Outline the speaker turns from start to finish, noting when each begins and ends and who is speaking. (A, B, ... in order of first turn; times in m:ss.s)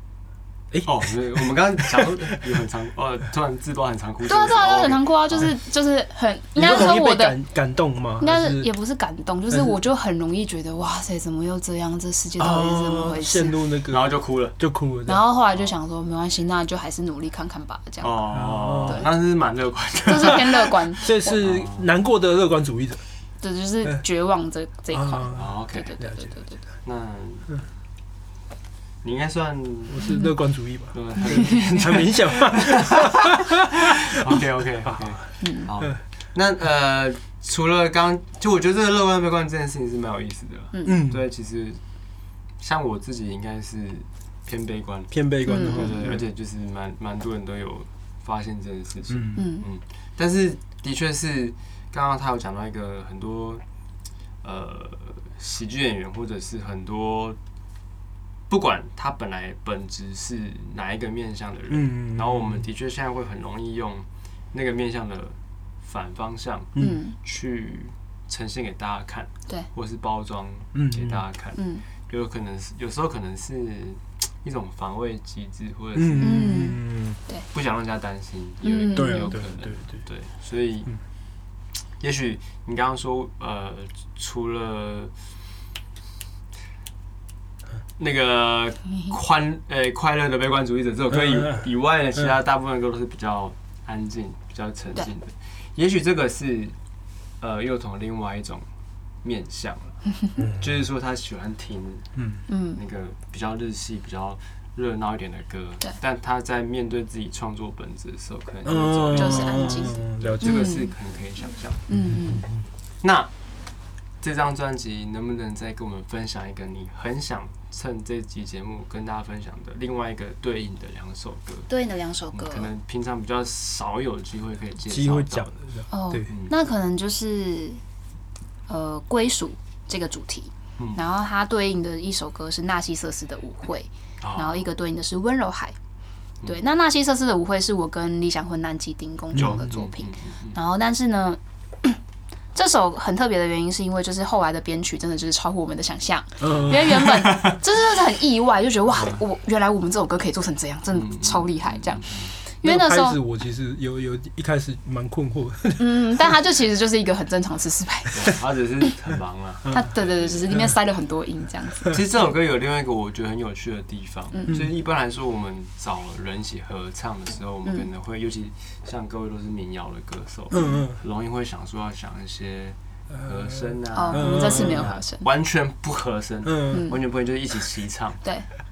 0:00.7-0:01.4 A
0:00.8-0:05.5 B
0:04.3-0:07.4 C
0:06.6-0:08.7 A
0:08.2-0:13.7 C
0:12.4-0:15.2 A
0:13.9-0:14.6 B
0:15.1-0:18.2 C
0:18.0-0:21.9 B
0:18.3-0:19.0 A
0:20.1-0:21.4 C
0:21.0-0:23.0 A
0:23.4-0:26.6 C
0:24.9-0:26.3 A
0:25.3-0:25.9 B
0:26.8-0:27.6 B
0:29.0-0:30.0 B
0:29.9-0:33.8 A
0:30.0-0:30.4 C
0:30.9-0:41.8 B
0:31.3-0:31.6 C
0:35.4-0:35.7 C
0:40.7-0:41.0 C
0:40.8-0:41.2 A
0:42.6-0:53.6 B
0:45.1-0:46.2 A
0:45.4-0:46.1 C
0:49.1-0:49.4 A
0:49.4-0:49.6 C
0:54.4-0:57.4 B
0:58.5-1:16.6 B
1:01.7-1:02.6 A
1:06.8-1:07.0 A
1:06.8-1:07.2 C
1:10.7-1:11.2 A
1:11.6-1:11.8 C
1:16.0-1:17.2 A
1:16.2-1:17.5 C
1:17.5-1:20.9 B
1:18.6-1:19.4 C
1:18.9-1:20.0 A
1:22.0-1:25.1 B
1:28.0-1:36.8 B
1:31.1-1:31.6 A
1:37.4-1:38.7 B
1:39.2-1:42.1 B
1:42.2-1:42.4 A
1:42.5-1:42.8 C
1:42.7-1:51.9 B
1:48.6-1:50.6 A
1:49.1-1:50.9 C
1:51.9-1:52.6 A
1:51.9-1:52.4 C
1:53.0-1:53.3 B
1:54.2-2:01.7 B
2:01.7-2:02.7 C
2:02.3-2:05.5 B
2:04.9-2:06.3 A
2:05.9-2:07.8 C
2:06.3-2:06.5 B
2:08.7-2:15.8 C
2:14.2-2:14.6 B
2:16.5-2:22.0 C
2:19.3-2:19.7 A
2:19.4-2:20.6 B
2:22.6-2:33.2 C
2:26.4-2:27.3 A
2:26.5-2:27.6 B
2:30.9-2:32.3 B
2:32.6-2:36.3 A
2:35.8-2:38.3 C
2:38.1-2:40.7 B
2:39.7-2:42.0 C
2:41.9-2:58.2 B
2:44.3-2:44.6 C
2:50.5-2:51.0 A
2:50.5-2:50.8 C
2:53.2-2:53.6 A
2:54.0-2:55.3 C
2:54.1-2:55.0 A
2:56.4-2:56.9 A
2:56.7-2:57.0 C